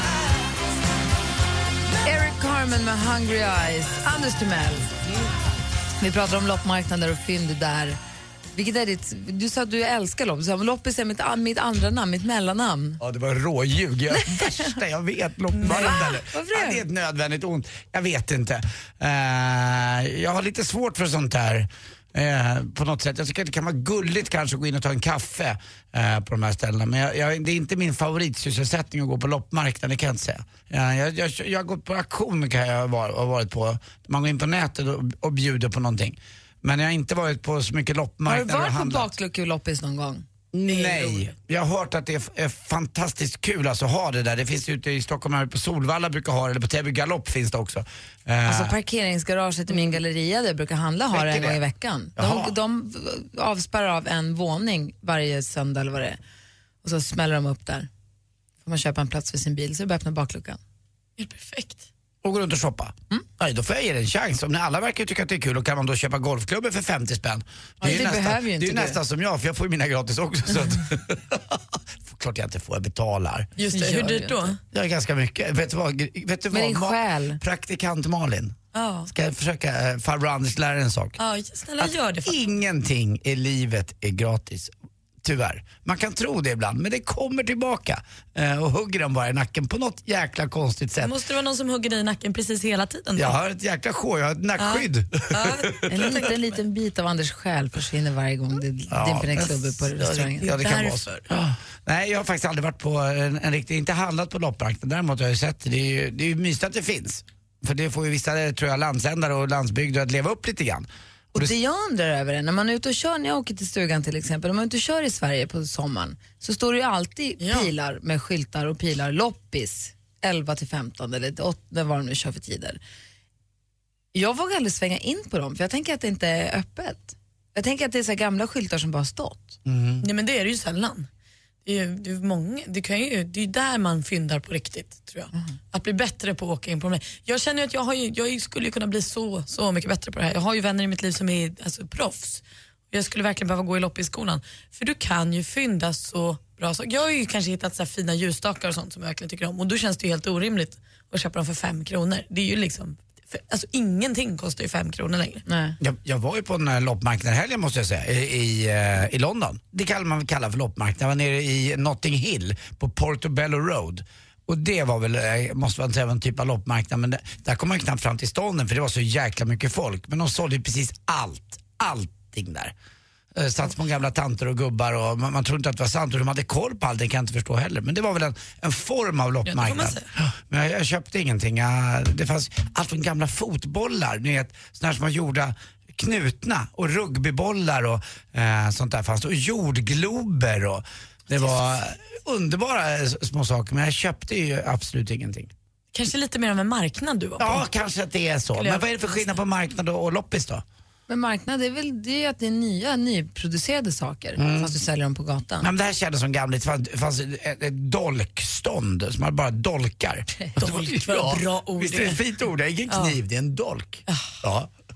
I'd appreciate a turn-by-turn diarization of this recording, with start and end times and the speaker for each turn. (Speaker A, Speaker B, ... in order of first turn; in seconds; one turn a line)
Speaker A: 2.0-4.9
Speaker A: 6.0-8.0
Speaker A: 8.5-13.0
Speaker B: 13.0-39.1
Speaker A: 14.2-14.6
Speaker C: 15.5-16.1
Speaker A: 15.7-16.8
Speaker A: 38.2-40.2
Speaker B: 40.5-48.7
Speaker C: 40.7-41.3
Speaker A: 48.4-56.2
Speaker B: 51.1-51.6
Speaker B: 52.2-52.5
Speaker A: 56.8-57.9
Speaker A: 58.6-60.6
Speaker C: 61.2-61.9
Speaker B: 62.2-73.5
Speaker A: 67.8-69.0
Speaker C: 73.6-74.6
Speaker A: 73.7-74.5
Speaker B: 74.7-81.2
Speaker A: 76.5-77.4
Speaker C: 78.7-79.1
Speaker C: 81.2-82.4
Speaker B: 81.8-84.7
Speaker B: 85.2-91.1
Speaker C: 91.0-93.4
Speaker B: 93.2-95.9
Speaker C: 94.6-95.8
Speaker A: 95.9-100.5
Speaker B: 98.9-111.5
Speaker C: 100.4-101.2
Speaker A: 111.3-122.8
Speaker C: 117.4-117.7
Speaker A: 124.1-129.6
Speaker B: 129.7-130.0
Speaker C: 130.0-131.1
Speaker C: 131.6-155.4
Speaker A: 155.5-155.8
Speaker B: 155.8-172.7
Speaker B: 173.3-195.5
Speaker C: 179.4-180.1
Speaker C: 195.9-197.6
Speaker B: 197.4-200.6
Speaker C: 198.5-199.4
Speaker A: 201.1-205.7
Speaker B: 204.4-204.8
Speaker B: 205.6-214.7
Speaker C: 210.6-212.2
Speaker C: 212.9-213.2